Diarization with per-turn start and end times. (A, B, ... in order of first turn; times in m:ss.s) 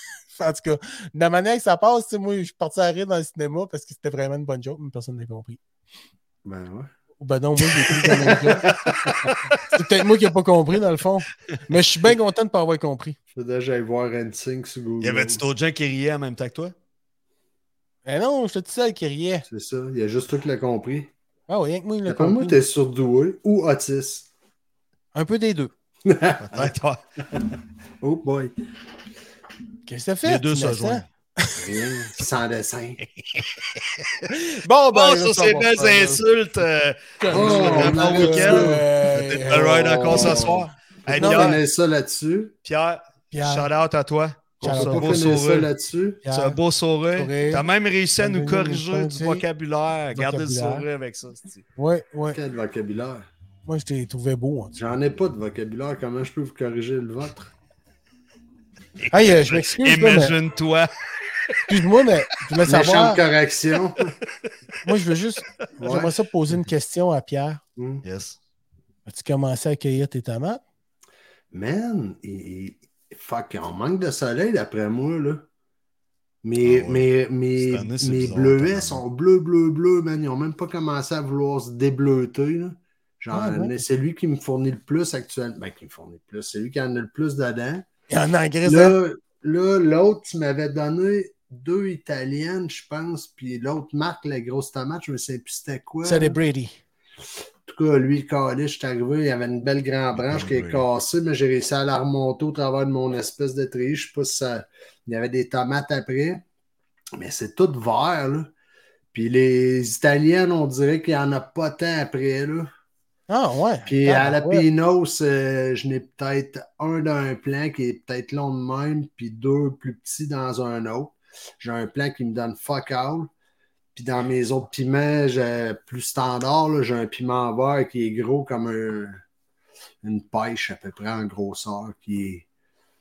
0:00.3-0:05.6 A
0:06.4-0:06.9 B
0:07.2-0:08.7 A
0:07.9-0:09.6 C
0:08.0-0:09.3 B
0:09.7-0:13.2 A
0:13.3-0:15.4 B
0:15.0-0:16.7 C
0:18.0-0:19.4 A
0:19.5-0:21.1 B
0:21.5-0:22.6 A
0:22.1-0:24.3 B
0:25.1-0:25.7 A
0:26.0-0:26.7 B
0:26.4-0:27.0 C
0:28.0-0:28.5 B
0:29.8-0:31.6 A
0:30.2-0:31.0 C
0:31.6-0:33.0 B
0:33.3-0:34.2 C
0:34.3-0:36.2 A
0:34.9-0:41.6 C
0:37.2-0:40.6 A
0:37.3-0:38.8 B
0:39.5-0:42.5 B
0:41.1-0:41.6 A
0:42.6-0:45.7 C
0:43.3-0:43.7 A
0:44.6-0:46.2 B
0:44.6-0:45.2 A
0:46.2-0:46.6 A
0:46.2-0:51.6 C
0:47.2-0:47.6 A
0:48.2-0:49.4 A
0:50.1-0:50.8 A
0:51.8-0:52.4 A
0:52.3-0:53.3 B
0:53.6-0:54.7 A
0:54.7-0:57.5 B
0:59.1-1:00.3 A
0:59.2-1:00.9 C
1:01.7-1:03.2 A
1:02.6-1:04.1 B
1:04.8-1:07.6 A
1:05.7-1:06.1 B
1:07.8-1:08.0 B
1:08.0-1:08.4 C
1:09.1-1:10.6 A
1:11.5-1:15.4 B
1:16.4-1:27.8 B
1:16.6-1:19.0 C
1:23.3-1:23.7 A
1:28.1-1:29.0 A
1:28.6-1:36.4 B
1:36.0-1:36.8 A
1:37.6-1:46.4 B
1:40.1-1:40.8 C
1:47.2-1:48.5 B
1:49.1-1:52.7 B
1:53.3-1:54.6 A
1:53.9-2:03.3 B
2:03.9-2:09.2 B
2:10.0-2:12.5 B